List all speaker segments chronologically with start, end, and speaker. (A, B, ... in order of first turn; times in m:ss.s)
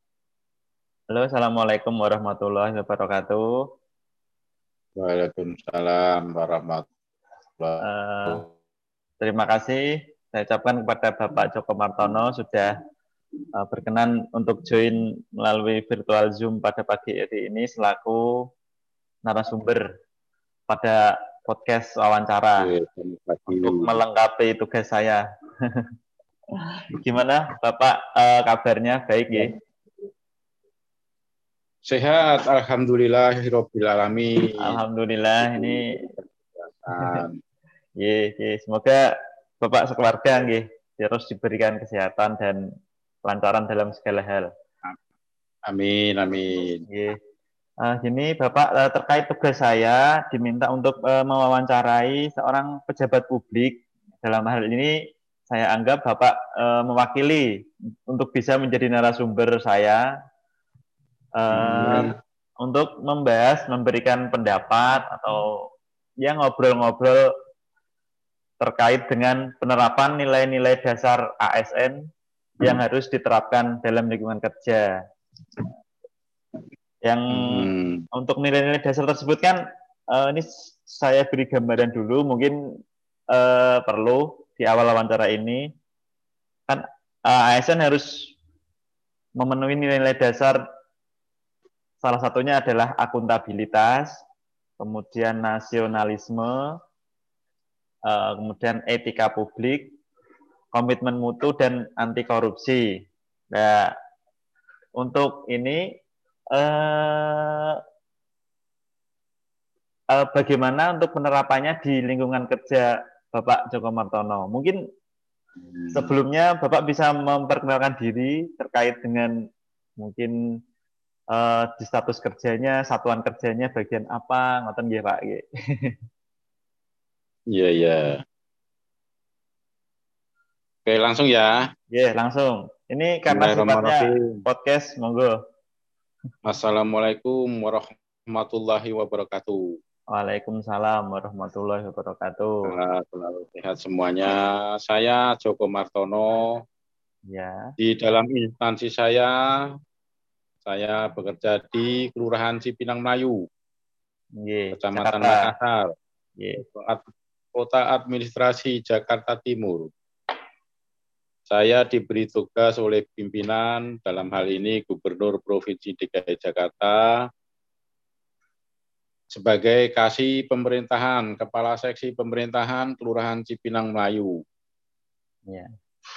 0:01.1-0:03.4 A
0:05.0-0:06.9 B
0:07.6-0:08.5 B
0:07.8-0:08.4 A
0:09.2-0:12.7 A
0:13.6-0:18.2 A
0:19.3-0:19.8 A
0:20.7-0:22.7 A
0:22.6-0:24.0 B
0:23.5-0:25.2 A
0:26.7-0:29.5 A
0:31.9-0:34.8 B
0:34.6-0:35.8 A
0:35.4-0:37.4 B
0:38.0-0:39.0 A
0:39.6-0:42.6 A
0:43.2-0:44.5 A
0:45.7-0:46.8 B
0:46.9-0:47.2 A
0:47.9-0:54.9 A
0:55.5-0:57.5 A
0:58.1-1:00.0 A
1:01.4-1:02.1 A
1:01.5-1:02.1 B
1:02.6-1:05.5 A
1:06.2-1:07.3 A
1:08.6-1:12.0 A
1:12.6-1:14.9 A
1:17.0-1:19.6 A
1:17.3-1:18.0 B
1:20.1-1:22.6 A
1:23.3-1:25.7 A
1:26.7-1:28.3 A
1:29.4-1:30.6 A
1:32.0-1:34.2 A
1:34.8-1:36.7 A
1:38.1-1:39.9 A
1:40.7-1:42.8 A
1:43.5-1:43.9 A
1:45.0-1:45.8 A
1:46.5-1:47.8 A
1:50.1-1:54.8 A
1:55.6-1:56.1 B
1:55.9-1:59.3 A
2:00.0-2:00.3 A
2:01.3-2:06.0 A
2:07.5-2:08.2 B
2:10.9-2:11.7 B
2:11.9-2:15.4 A
2:13.3-2:14.4 B
2:16.4-2:19.8 B
2:20.1-2:22.5 A
2:22.7-2:26.5 B
2:27.3-2:27.7 A
2:27.8-2:29.4 B
2:30.6-2:33.4 B
2:34.4-2:35.5 A
2:34.7-2:35.9 B
2:36.4-2:36.6 A
2:36.8-2:39.9 B
2:41.5-2:47.2 B
2:49.3-2:54.4 B